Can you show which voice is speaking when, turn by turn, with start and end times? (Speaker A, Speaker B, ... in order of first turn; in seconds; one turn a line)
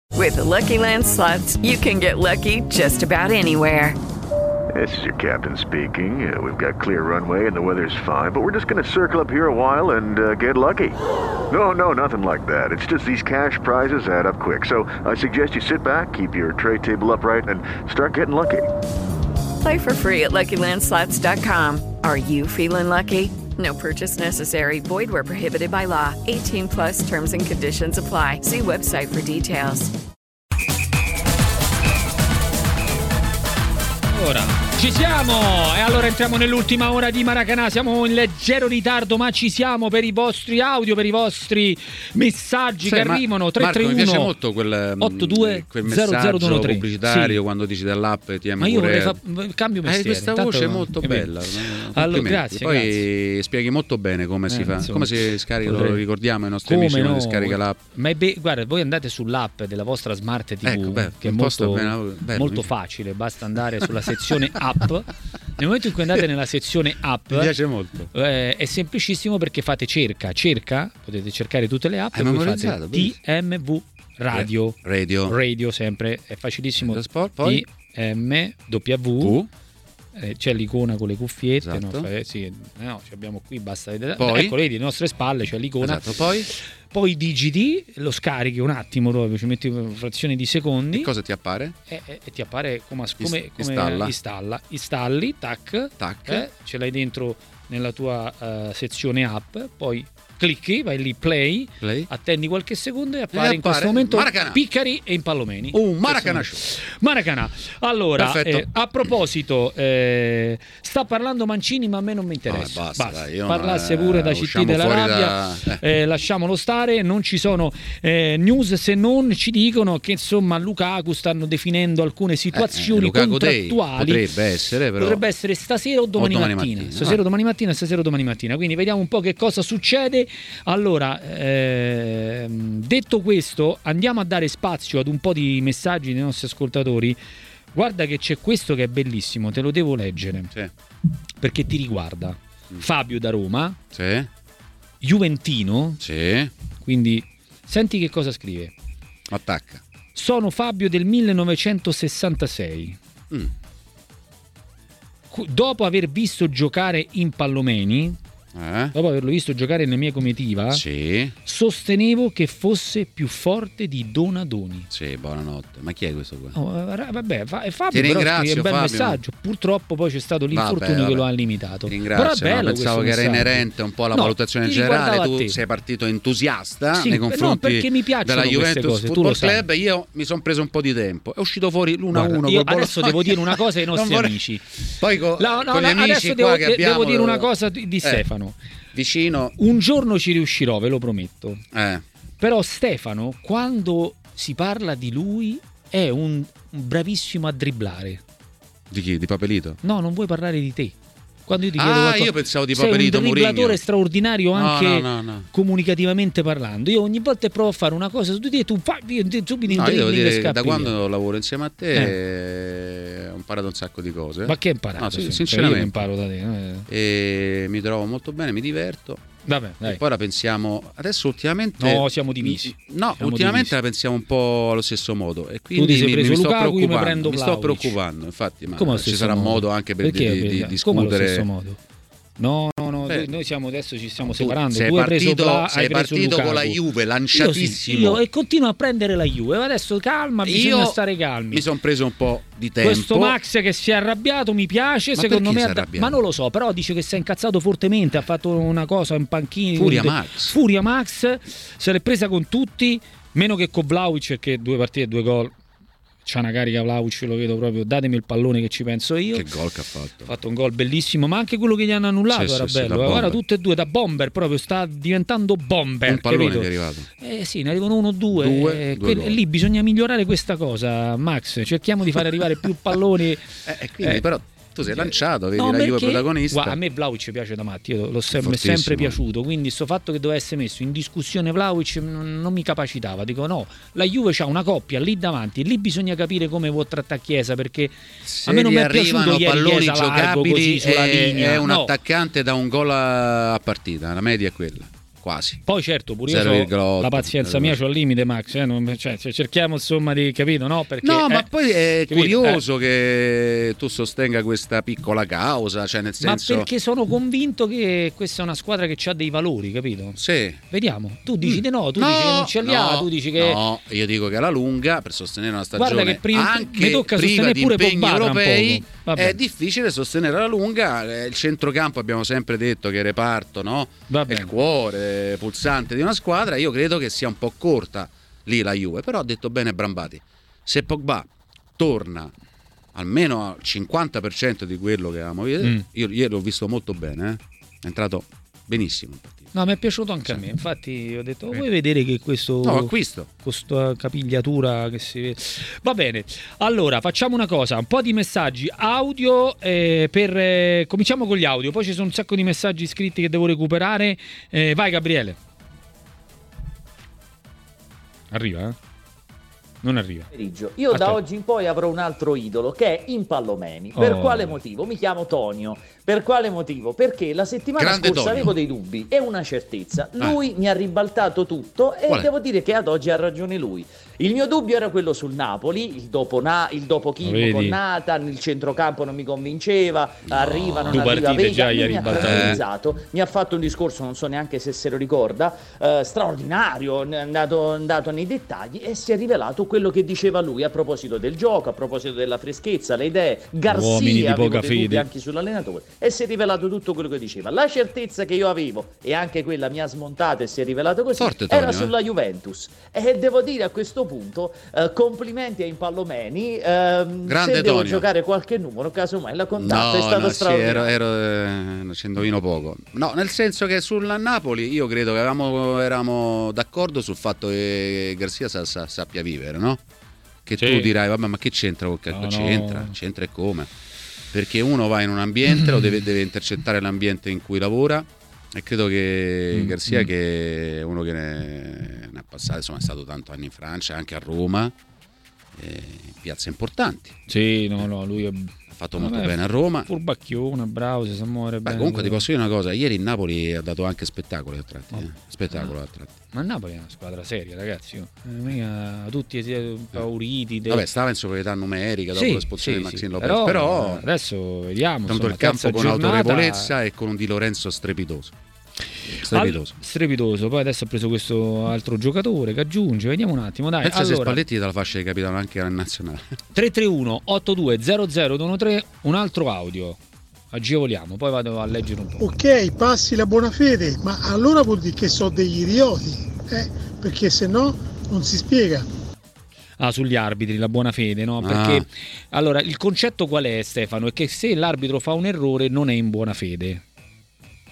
Speaker A: 0.1-4.0
Speaker B: 4.7-11.0
Speaker B: 11.5-18.6
Speaker A: 19.6-29.9
Speaker C: 34.1-44.3
Speaker D: 42.8-49.2
Speaker C: 45.0-47.4
Speaker C: 48.6-53.0
Speaker D: 49.8-57.8
Speaker C: 54.5-56.0
Speaker C: 56.7-67.5
Speaker D: 60.6-62.7
Speaker D: 67.3-68.1
Speaker C: 68.1-79.4
Speaker D: 72.1-73.2
Speaker D: 74.3-75.3
Speaker D: 76.8-77.7
Speaker D: 79.2-79.5
Speaker C: 80.1-91.1
Speaker D: 81.6-82.1
Speaker D: 84.2-84.6
Speaker D: 85.8-86.5
Speaker D: 90.9-91.7
Speaker C: 91.9-124.2
Speaker D: 93.2-94.1
Speaker D: 96.0-96.5
Speaker D: 101.8-102.1
Speaker D: 103.3-104.6
Speaker D: 105.7-106.6
Speaker D: 108.2-108.7
Speaker D: 112.5-115.8
Speaker D: 122.5-125.2
Speaker C: 125.0-137.2
Speaker D: 126.2-127.2
Speaker C: 137.7-140.5
Speaker C: 141.4-143.8
Speaker D: 143.9-144.3
Speaker C: 145.0-146.0
Speaker D: 146.0-146.5
Speaker C: 146.8-148.7
Speaker D: 149.3-149.8
Speaker C: 150.2-153.0
Speaker C: 155.3-158.2
Speaker D: 158.5-158.9
Speaker C: 158.9-160.8
Speaker D: 160.7-161.3
Speaker C: 161.4-164.9
Speaker D: 164.9-166.6
Speaker C: 166.5-175.6
Speaker D: 167.9-169.2
Speaker D: 170.5-171.2
Speaker D: 171.9-187.5
Speaker C: 176.9-179.6
Speaker C: 182.1-184.7
Speaker C: 185.4-188.6
Speaker D: 188.9-189.6
Speaker C: 189.6-191.6
Speaker D: 191.7-192.0
Speaker C: 192.4-198.2
Speaker D: 198.9-199.8
Speaker C: 199.8-200.9
Speaker C: 201.5-210.9
Speaker D: 201.8-203.8
Speaker D: 204.5-205.5
Speaker D: 209.7-216.1
Speaker C: 214.5-216.9
Speaker D: 216.9-219.3
Speaker C: 219.4-220.0
Speaker D: 219.8-231.5
Speaker C: 221.8-223.7
Speaker C: 225.8-228.0
Speaker C: 228.8-231.8
Speaker C: 232.4-236.8
Speaker D: 233.1-233.3
Speaker D: 234.2-238.2
Speaker C: 237.3-241.7
Speaker D: 240.4-241.0
Speaker D: 241.5-243.4
Speaker C: 242.8-255.5
Speaker D: 245.2-246.2
Speaker D: 249.8-250.6
Speaker C: 256.2-259.5
Speaker D: 259.3-260.3
Speaker C: 260.2-273.5
Speaker D: 262.3-263.4
Speaker D: 266.1-267.1
Speaker D: 268.3-269.4
Speaker D: 273.6-276.8
Speaker C: 274.9-287.9
Speaker D: 278.3-279.2
Speaker D: 288.2-295.6
Speaker C: 288.4-291.9
Speaker C: 295.6-301.5
Speaker D: 296.3-297.8
Speaker D: 301.0-306.7
Speaker C: 302.1-302.6
Speaker C: 306.2-310.2
Speaker D: 310.1-310.6
Speaker C: 310.7-313.6
Speaker D: 311.4-332.3
Speaker C: 315.8-319.4
Speaker C: 324.1-324.5
Speaker D: 332.9-339.5
Speaker C: 339.5-355.4
Speaker D: 342.6-343.3
Speaker C: 358.3-358.8
Speaker C: 359.8-360.3
Speaker E: 360.3-411.0
Speaker C: 360.9-361.2
Speaker C: 363.9-364.6
Speaker D: 367.8-368.5
Speaker C: 377.2-377.8
Speaker D: 380.3-381.1
Speaker C: 380.9-382.6
Speaker D: 382.1-382.6
Speaker C: 393.6-395.1
Speaker D: 401.2-401.9
Speaker D: 407.2-408.1
Speaker D: 409.6-419.8
Speaker D: 420.4-423.7
Speaker C: 420.6-420.9
Speaker C: 422.1-422.9
Speaker D: 424.3-434.7
Speaker C: 429.5-430.1
Speaker D: 435.5-437.2
Speaker C: 437.3-442.2
Speaker D: 438.7-439.9
Speaker D: 441.6-446.1
Speaker C: 444.9-445.7
Speaker C: 446.3-450.8
Speaker D: 450.7-454.0
Speaker C: 452.1-456.7
Speaker D: 455.1-458.3
Speaker D: 459.2-459.8
Speaker C: 459.2-464.4
Speaker D: 463.8-466.2
Speaker C: 466.5-470.0
Speaker C: 470.5-472.2
Speaker F: 472.2-478.9
Speaker C: 479.8-486.8
Speaker D: 481.4-481.9